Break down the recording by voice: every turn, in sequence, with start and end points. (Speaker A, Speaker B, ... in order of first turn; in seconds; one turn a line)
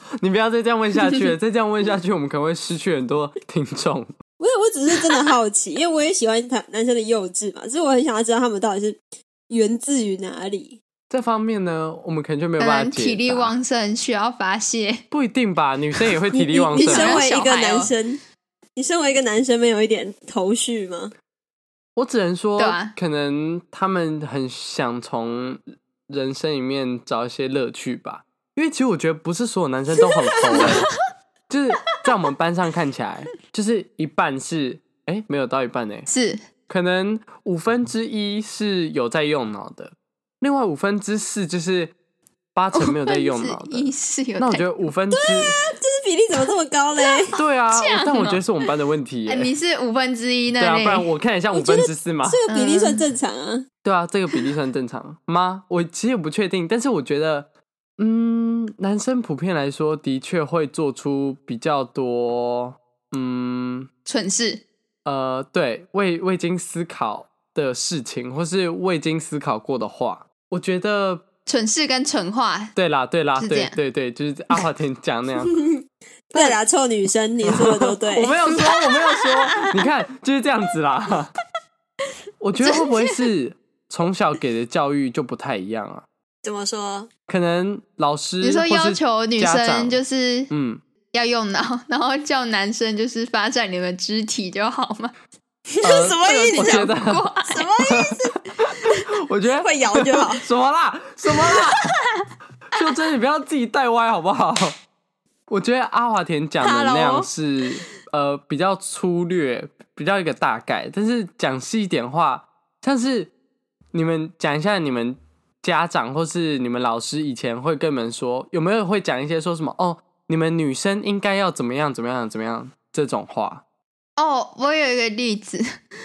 Speaker A: 0.2-4.1
Speaker B: 4.4-10.8
Speaker A: 11.1-13.5
Speaker C: 12.6-15.0
Speaker A: 15.1-17.2
Speaker B: 16.3-18.2
Speaker C: 16.8-17.9
Speaker B: 18.8-21.1
Speaker A: 22.0-30.9
Speaker C: 22.6-22.9
Speaker A: 31.5-36.1
Speaker C: 36.1-36.5
Speaker A: 36.7-41.9
Speaker A: 42.5-45.6
Speaker C: 42.8-44.7
Speaker B: 45.1-47.4
Speaker C: 47.0-48.4
Speaker A: 47.4-49.5
Speaker C: 49.3-51.1
Speaker A: 50.6-52.4
Speaker B: 51.5-53.7
Speaker C: 52.5-53.0
Speaker A: 53.9-57.5
Speaker A: 58.0-63.9
Speaker C: 64.0-64.6
Speaker A: 65.0-71.2
Speaker C: 71.5-72.7
Speaker A: 72.8-75.5
Speaker C: 73.4-73.8
Speaker B: 75.4-75.7
Speaker B: 76.3-78.3
Speaker A: 77.5-81.3
Speaker C: 78.5-79.7
Speaker A: 82.4-86.1
Speaker C: 82.6-83.2
Speaker B: 86.4-87.1
Speaker A: 87.3-90.8
Speaker C: 88.4-90.5
Speaker C: 91.1-95.1
Speaker B: 95.7-96.9
Speaker A: 95.8-97.2
Speaker C: 96.2-97.7
Speaker B: 97.5-98.3
Speaker A: 98.8-101.9
Speaker B: 99.6-100.5
Speaker C: 101.4-102.2
Speaker A: 102.7-104.8
Speaker A: 105.5-113.3
Speaker C: 106.6-107.3
Speaker A: 113.9-123.6
Speaker C: 124.2-125.8